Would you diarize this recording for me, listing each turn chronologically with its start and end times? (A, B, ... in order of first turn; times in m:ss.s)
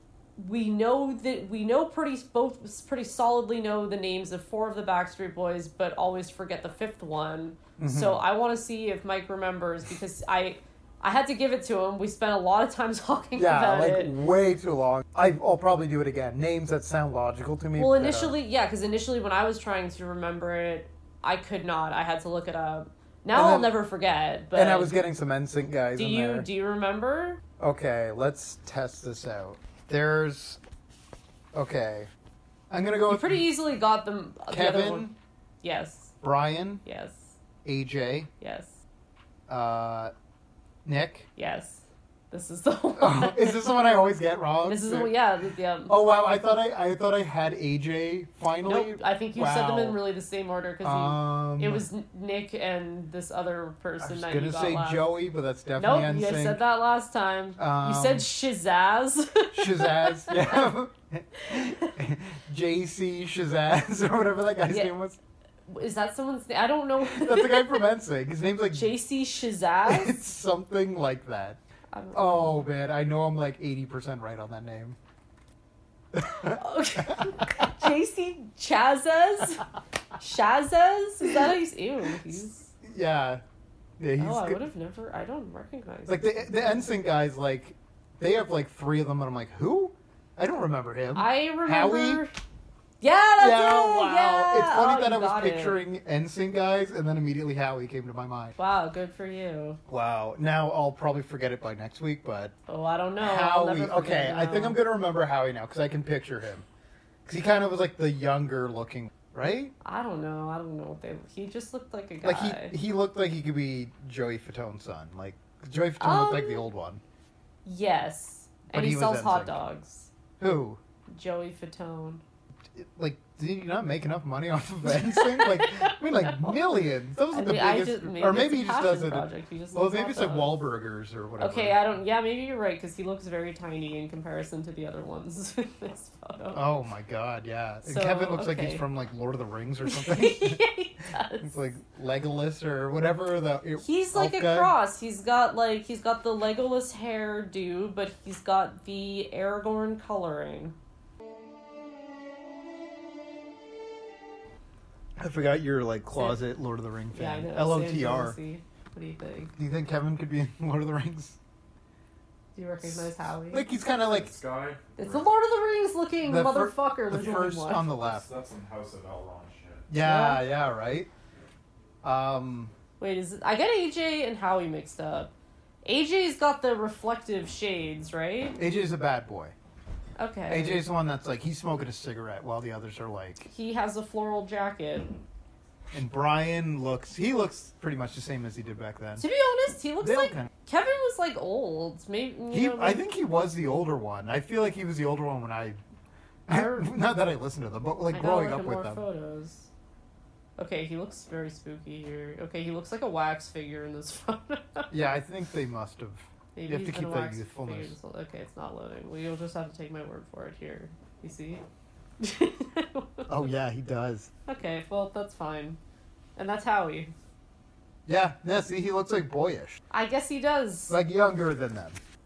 0:00.4-0:14.1 A
0:07.8-0:08.2 B
0:13.4-0:18.4 B
0:17.8-0:25.0 A
0:23.3-0:23.8 B
0:24.5-0:26.5 B
0:25.9-0:27.4 A
0:27.6-0:30.6 B
0:31.5-0:32.1 B
0:32.7-0:33.5 B
0:33.1-0:35.1 A
0:34.5-0:35.1 B
0:35.6-0:36.1 A
0:36.2-0:36.8 B
0:36.8-0:37.3 A
0:37.6-0:38.3 B
0:38.4-0:38.8 A
0:39.5-0:40.1 B
0:40.8-0:41.3 B
0:41.4-0:43.6 A
0:43.0-0:45.1 B
0:44.6-0:45.9 A
0:45.9-0:50.0 B
0:48.6-0:55.1 A
0:50.8-0:51.9 B
0:54.0-0:56.6 B
0:55.8-1:00.7 A
0:57.6-0:58.3 B
0:59.5-1:05.2 B
1:01.4-1:01.9 A
1:05.7-1:07.8 A
1:07.0-1:08.9 B
1:08.7-1:10.2 A
1:09.8-1:11.6 B
1:11.9-1:12.5 A
1:12.1-1:15.0 B
1:16.1-1:17.6 B
1:16.4-1:19.6 A
1:20.2-1:22.7 A
1:22.3-1:23.4 B
1:24.0-1:24.6 B
1:24.2-1:26.5 A
1:26.1-1:32.2 B
1:31.1-1:32.3 A
1:33.0-1:35.8 A
1:33.4-1:38.5 B
1:38.6-1:39.8 A
1:39.9-1:42.5 B
1:42.7-1:44.8 A
1:43.2-1:46.6 B
1:47.2-1:49.7 B
1:49.8-1:52.8 A
1:52.2-1:57.0 B
1:56.0-1:56.6 A
1:57.6-2:00.1 A
1:58.7-1:59.6 B
2:00.4-2:00.8 B
2:01.1-2:02.2 A
2:02.7-2:11.8 B
2:04.8-2:06.6 A
2:07.3-2:10.6 A
2:11.4-2:16.6 A
2:16.5-2:20.6 B
2:17.8-2:18.8 A
2:19.8-2:21.5 A
2:21.2-2:24.7 B
2:23.8-2:30.8 A
2:35.2-2:38.4 B
2:37.1-2:39.5 A
2:39.6-2:41.4 B
2:42.5-2:43.6 A
2:42.8-2:44.3 B
2:44.1-2:45.3 C
2:45.0-2:47.8 A
2:46.2-2:48.3 B
2:47.9-2:49.9 C
2:49.9-2:51.1 B
2:50.0-2:50.4 A
2:52.0-2:52.7 B
2:53.0-2:55.3 A
2:55.8-2:58.6 A
2:58.6-2:59.5 B
3:00.2-3:00.8 A
3:00.5-3:03.5 B
3:03.4-3:05.1 A
3:05.9-3:09.2 B
3:09.2-3:13.0 A
3:10.0-3:10.5 B
3:12.5-3:15.8 B
3:16.5-3:19.0 B
3:16.5-3:16.9 A
3:18.1-3:19.7 A
3:20.6-3:24.9 A
3:24.9-3:27.9 B
3:26.6-3:31.6 A
3:32.2-3:33.3 A
3:33.3-3:34.3 B
3:34.5-3:35.8 A
3:36.4-3:37.1 A
3:38.1-3:39.8 B
3:39.9-3:41.0 A
3:40.9-3:42.0 B